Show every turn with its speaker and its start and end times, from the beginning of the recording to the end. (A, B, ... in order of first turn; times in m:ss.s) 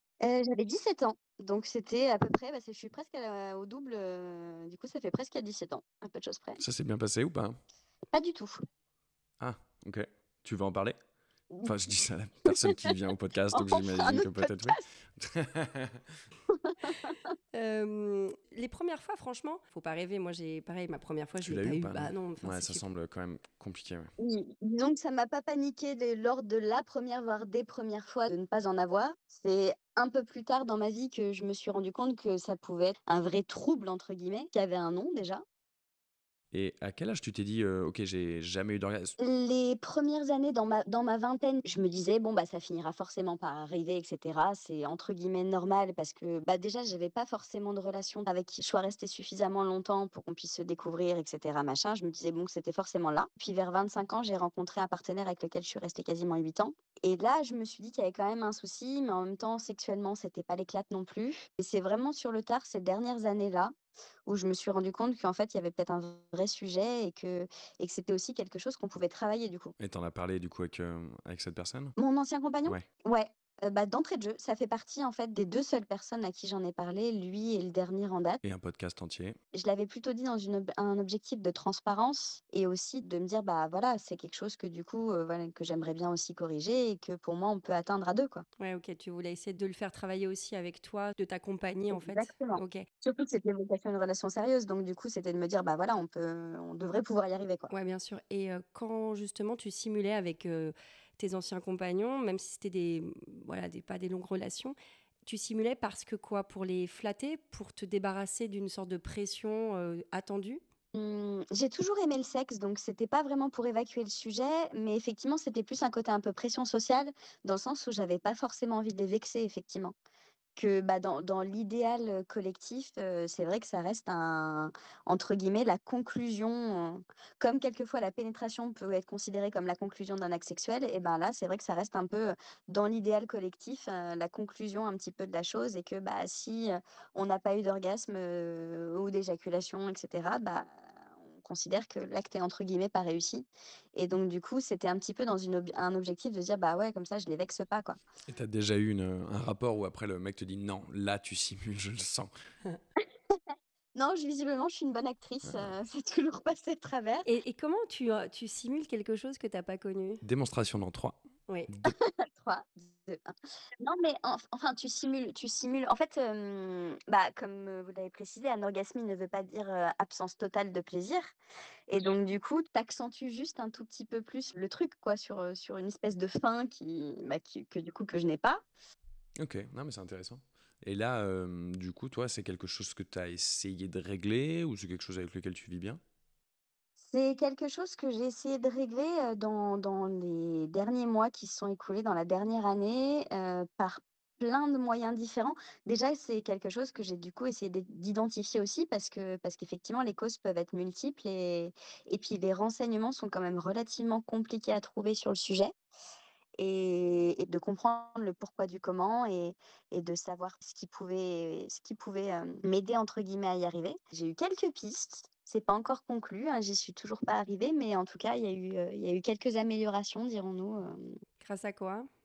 0:00.2-0:06.6 A
0:06.6-0:07.6 B
0:08.1-0:08.6 A
0:09.4-0:11.0 B
0:11.6-0:16.1 B
0:12.5-0:13.0 A
0:13.5-0:14.8 A
0:16.5-0:17.3 A
0:17.5-0:22.8 C
0:21.4-0:24.1 B
0:24.2-0:35.4 A
0:36.5-0:39.2 B
0:39.2-1:03.7 A
1:04.3-1:09.7 A
1:09.8-1:12.0 B
1:12.0-1:18.4 A
1:18.4-1:19.4 B
1:19.5-1:28.4 A
1:28.6-1:32.9 C
1:31.9-1:37.7 A
1:37.7-1:50.6 C
1:50.9-2:00.0 A
2:00.6-2:28.0 A
2:28.3-2:32.3 B
2:33.0-2:33.4 A
2:34.0-2:37.3 A
2:37.2-2:40.2 C
2:40.2-2:42.0 B
2:41.8-2:51.3 A
2:51.9-2:58.6 A
2:59.4-3:06.0 B
3:07.0-3:25.7 A
3:26.6-3:41.2 A
3:41.4-3:42.1 C